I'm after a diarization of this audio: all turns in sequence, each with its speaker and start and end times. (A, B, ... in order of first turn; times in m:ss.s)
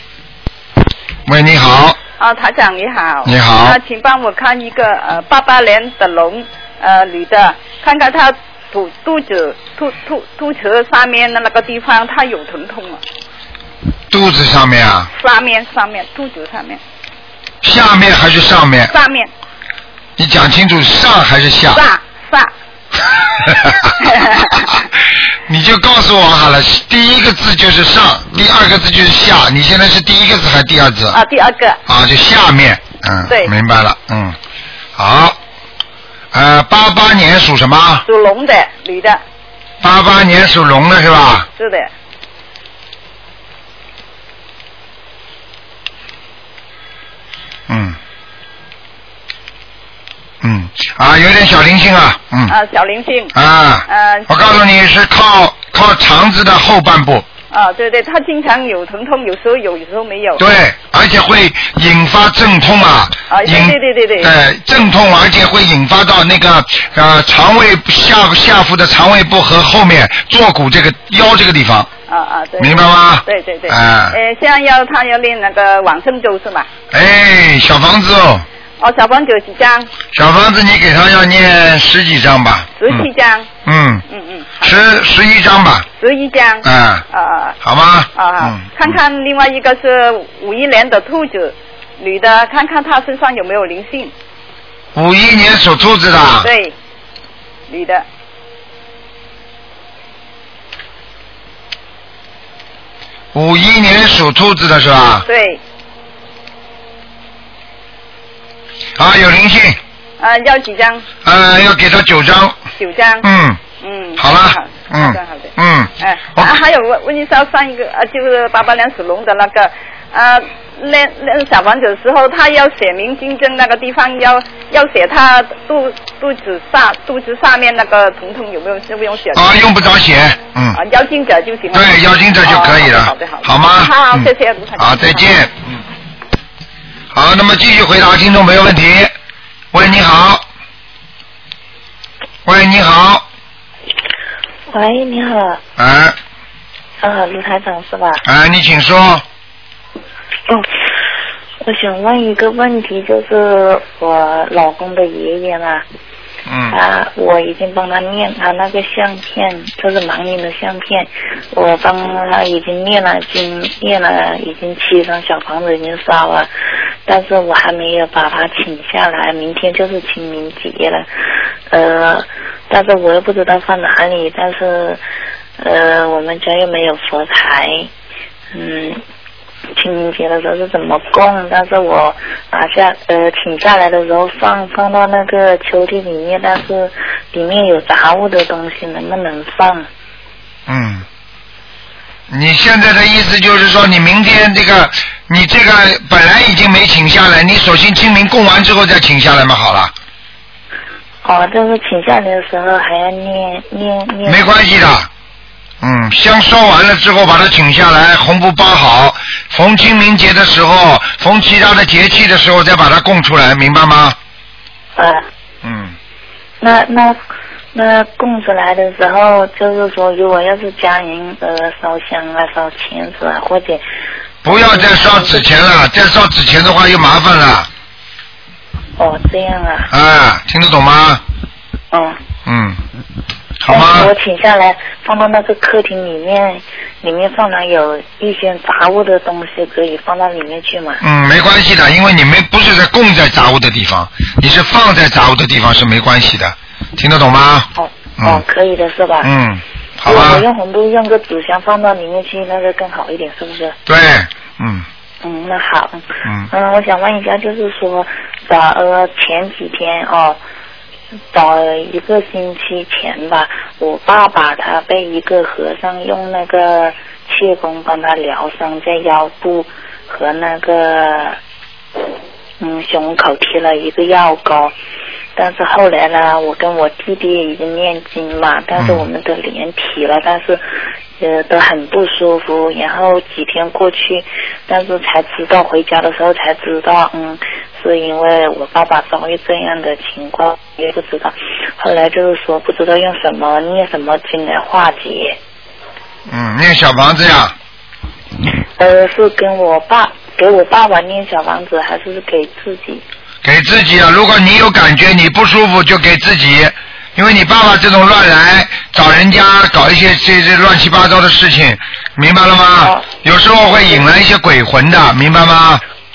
0:01.3-0:02.0 A
0:02.2-0:13.0 B
0:03.2-0:03.8 A
0:14.1-0:15.1 A
0:15.2-0:16.8 B
0:17.6-0:18.9 A
0:18.9-0:19.3 B
0:20.2-0:21.8 A
0:21.7-0:22.5 B
0:23.4-0:23.9 A
0:24.0-0:24.8 B
0:25.5-0:31.2 A
0:31.1-0:31.8 B
0:31.9-0:34.4 A
0:33.3-0:33.5 B
0:35.0-0:35.4 A
0:36.3-0:38.0 A
0:38.0-0:39.2 B
0:39.8-0:41.5 A
0:41.6-0:41.9 B
0:47.7-0:48.0 A
0:50.4-0:52.6 A
0:52.5-0:53.3 B
0:53.4-0:57.3 A
0:53.9-0:54.6 B
0:57.5-1:00.4 B
1:00.4-1:11.9 A
1:03.3-1:04.3 B
1:12.1-1:16.7 B
1:12.6-1:14.2 A
1:16.9-1:18.5 A
1:18.8-1:19.9 B
1:20.1-1:23.1 A
1:22.8-1:23.5 B
1:23.6-1:24.0 A
1:24.1-1:24.8 B
1:24.6-1:25.9 A
1:26.0-1:27.6 B
1:26.6-1:27.0 A
1:27.6-1:28.9 A
1:28.2-1:34.1 B
1:35.0-1:36.5 A
1:36.4-1:36.7 B
1:37.7-1:38.0 B
1:43.3-1:45.2 A
1:45.2-1:45.6 B
1:49.0-1:49.8 A
1:50.2-1:51.0 B
1:51.2-1:52.6 A
1:52.8-2:09.6 B
1:53.2-1:53.6 A
1:54.2-1:56.5 A
2:09.3-2:10.8 A
2:10.7-2:15.4 B
2:11.7-2:15.8 A
2:17.1-2:19.1 A
2:19.7-2:20.5 A
2:22.4-2:23.3 A
2:24.7-2:25.6 C
2:25.8-2:26.2 A
2:27.0-2:28.2 C
2:28.2-2:29.2 A
2:31.6-2:35.8 C
2:36.5-2:36.8 A
2:36.7-2:46.5 C
2:47.1-2:51.1 C
2:51.7-2:55.0 C
2:55.6-2:57.9 C
2:58.5-2:59.0 C
2:59.8-3:09.9 C
3:10.7-3:11.0 A
3:12.3-3:19.9 A
3:21.2-3:24.5 C
3:24.3-3:25.1 A
3:25.8-3:34.2 A
3:35.0-3:35.2 C
3:35.6-3:36.0 A
3:36.6-3:37.2 C
3:37.7-3:43.8 C
3:44.4-3:47.7 A
3:44.5-3:45.4 C
3:49.0-3:49.9 C
3:49.9-3:51.2 A
3:51.9-3:52.2 C
3:52.4-3:52.8 A
3:53.6-3:54.1 A
3:53.7-4:01.0 C
4:01.0-4:08.4 A
4:07.8-4:09.3 C
4:09.2-4:10.4 A
4:10.0-4:13.8 C
4:13.9-4:14.9 A
4:15.2-4:20.4 C
4:16.2-4:16.5 A
4:21.3-4:31.4 C
4:32.6-4:34.7 C
4:35.4-4:40.6 C
4:38.8-4:39.1 A
4:41.2-4:55.4 C
4:56.3-4:57.6 A
4:58.8-5:03.0 C
5:03.4-5:15.8 A